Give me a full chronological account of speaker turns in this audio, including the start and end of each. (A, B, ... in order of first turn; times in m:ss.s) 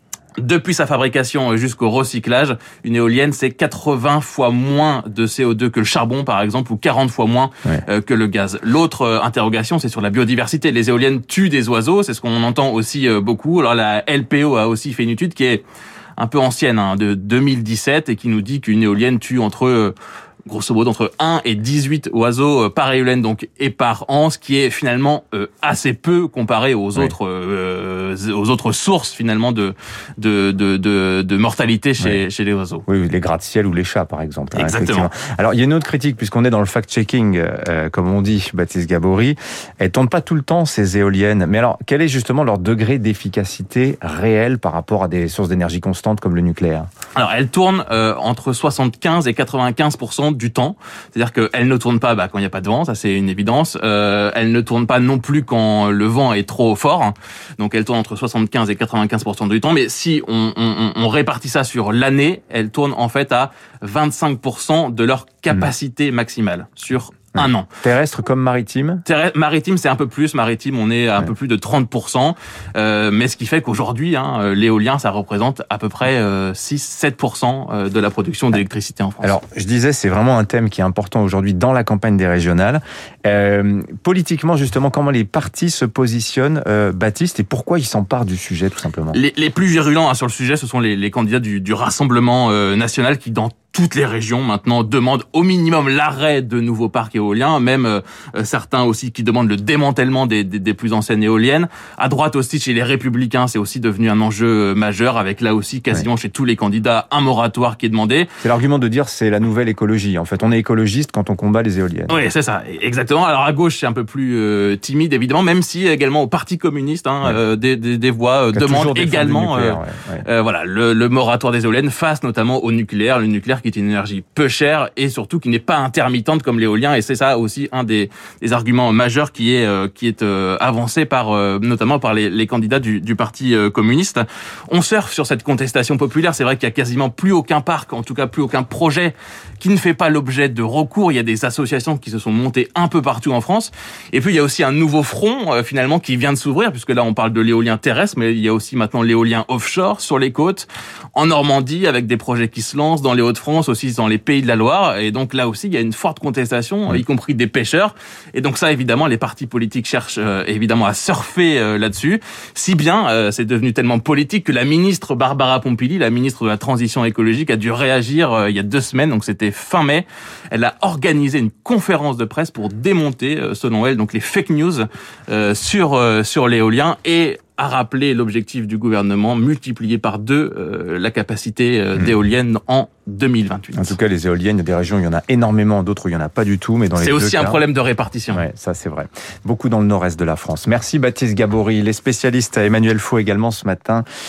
0:00.4-0:15.6 A
0:16.2-0:20.0 A
0:20.5-0:32.8 A
0:32.9-0:46.9 B
0:34.6-0:35.1 A
0:47.2-1:07.7 A
1:07.4-1:09.0 B
1:09.1-1:19.4 A
1:19.2-1:29.2 B
1:29.1-1:48.3 A
1:48.4-1:52.2 B
1:52.1-3:04.0 A
1:58.5-2:00.3 B
3:03.8-3:07.6 B
3:07.0-3:08.4 A
3:08.3-3:14.0 B